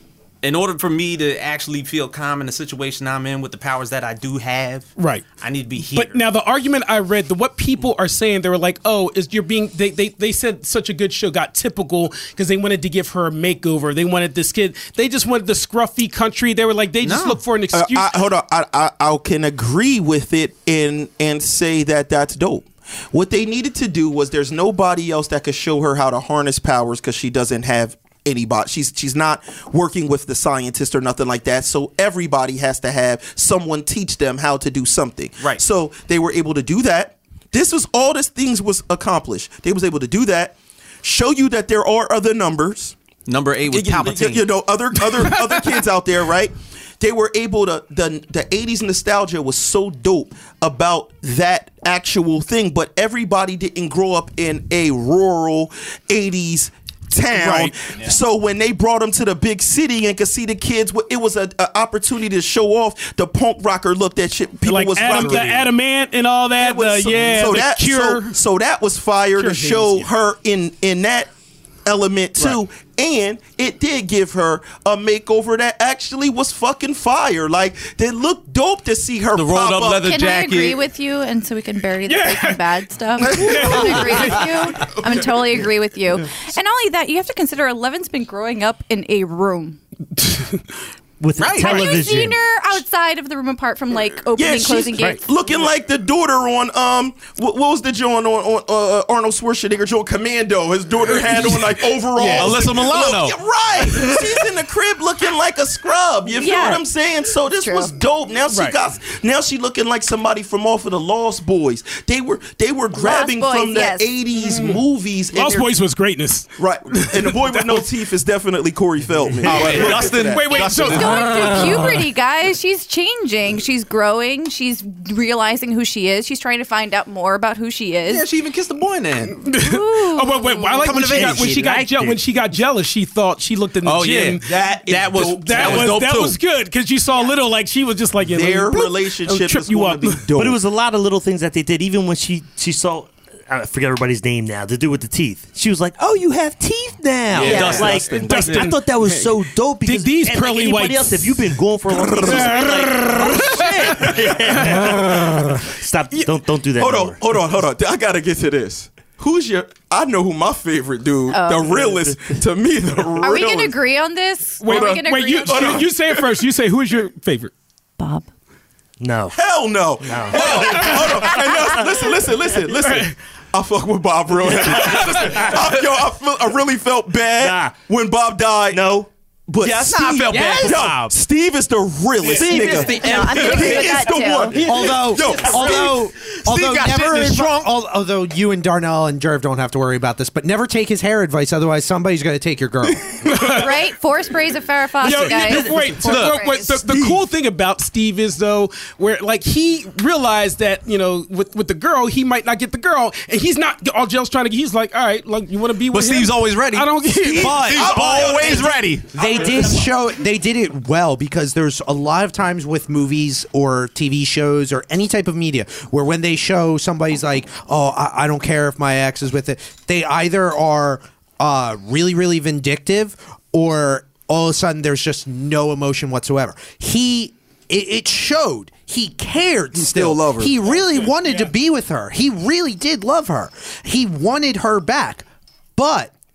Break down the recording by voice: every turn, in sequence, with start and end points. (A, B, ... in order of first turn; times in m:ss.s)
0:00.4-0:06.2 A
0:05.0-0:05.2 B
0:05.8-0:18.1 B
0:17.0-0:17.4 A
0:17.7-0:43.0 C
0:43.3-0:44.5 A
0:43.7-1:05.7 C
0:57.3-0:57.7 B
1:04.6-1:08.4 B
1:05.1-1:05.5 D
1:06.6-1:11.3 C
1:09.4-1:10.1 B
1:11.8-1:20.1 C
1:19.4-1:20.9 A
1:20.0-1:29.8 E
1:22.1-1:24.7 B
1:30.2-1:30.6 B
1:31.2-1:32.4 F
1:31.4-1:32.0 A
1:31.5-1:35.2 E
1:34.4-1:55.7 C
1:41.1-1:41.6 A
1:42.2-1:42.6 B
1:42.3-1:43.4 A
1:46.4-1:46.9 E
1:47.6-1:48.0 E
1:48.5-1:48.8 B
1:52.9-1:54.1 E
1:54.4-1:54.8 B
1:55.3-1:57.9 B
1:56.6-2:00.7 C
1:59.4-2:01.9 A
1:59.6-2:02.0 B
2:00.9-2:08.2 E
2:08.1-2:09.4 A
2:09.4-2:14.5 B
2:09.5-2:11.1 E
2:10.8-2:11.6 A
2:11.2-2:12.2 F
2:13.8-2:16.4 A
2:14.4-2:16.0 C
2:15.2-2:20.2 B
2:18.2-2:20.6 C
2:20.4-2:37.2 F
2:27.3-2:28.7 C
2:27.3-2:28.7 A
2:27.5-2:27.8 E
2:27.6-2:31.4 B
2:32.2-2:35.6 B
2:36.8-2:43.8 C
2:41.3-2:41.8 E
2:43.2-2:45.8 E
2:44.6-2:47.5 B
2:44.7-2:46.3 C
2:48.0-2:48.3 E
2:49.0-2:49.4 F
2:49.3-2:59.0 C
2:50.0-2:51.4 F
2:50.4-2:51.5 B
2:52.8-2:53.1 B
2:54.5-2:55.6 F
2:57.4-2:57.8 F
2:58.7-2:59.1 F
2:59.5-3:06.0 C
2:59.6-3:01.2 A
3:00.3-3:00.8 D
3:02.2-3:07.7 A
3:02.4-3:04.6 E
3:04.6-3:13.2 D
3:13.2-3:13.8 B
3:13.3-3:16.8 E
3:15.0-3:16.2 F
3:15.0-3:27.7 B
3:16.0-3:17.1 A
3:25.9-3:29.1 A
3:27.3-3:28.5 D
3:27.7-3:29.6 C
3:29.1-3:55.2 D
3:49.8-3:50.7 C
3:55.8-3:56.1 D